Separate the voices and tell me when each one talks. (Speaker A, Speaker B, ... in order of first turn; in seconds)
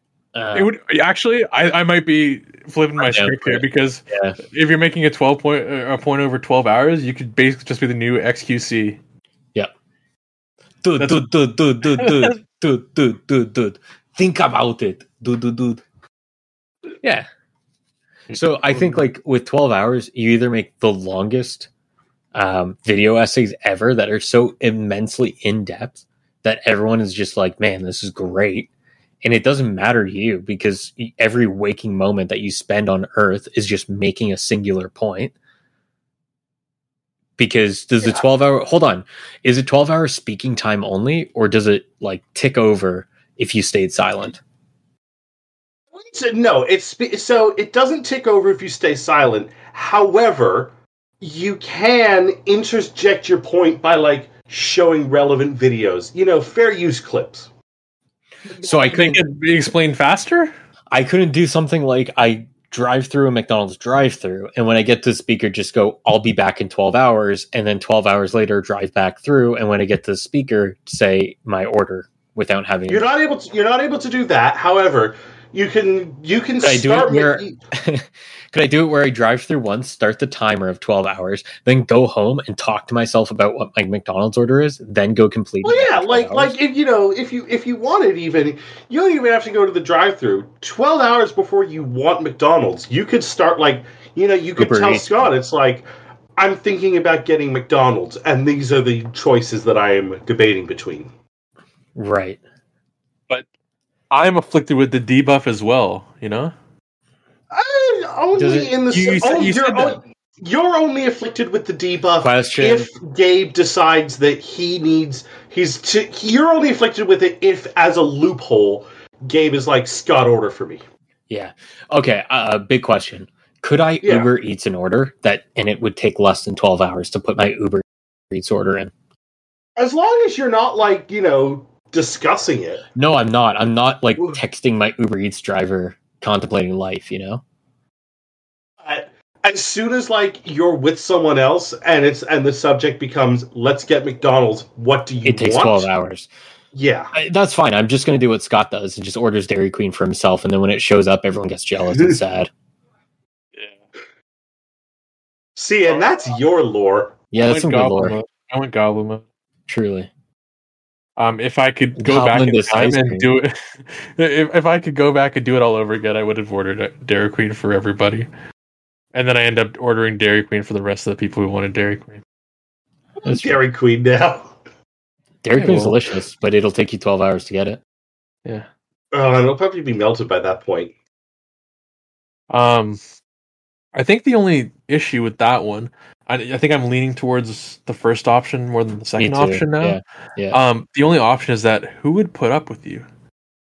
Speaker A: 0.3-0.7, 3.0-4.4, 10.8-15.8, 17.0-17.3, 18.3-21.7, 22.3-28.7, 29.2-35.3, 37.4-44.4, 58.6-59.2, 60.9-73.1, 76.6-86.6, 94.6-95.3, 102.0-102.4, 108.4-108.8, 112.2-112.9, 121.3-128.9, 133.0-137.4, 145.2-146.3, 147.1-152.5, 157.3-158.2, 159.7-160.1, 162.0-163.3, 173.3-173.6, 175.4-177.8, 189.2-190.6
Speaker B: 0.5-9.0, 11.0-11.3, 12.0-12.4, 18.3-19.0, 58.7-60.5, 104.1-106.5, 108.9-110.0, 157.4-159.2, 161.2-168.3, 169.1-172.2, 175.6-176.0, 182.5-183.0, 183.9-190.0, 190.5-193.1
Speaker C: 45.9-57.5, 72.9-77.6, 85.6-101.1, 107.5-120.8, 124.0-124.3, 129.8-132.8, 138.8-145.9, 146.7-147.1, 151.9-152.2, 155.6-157.2, 173.2-174.6, 179.1-180.9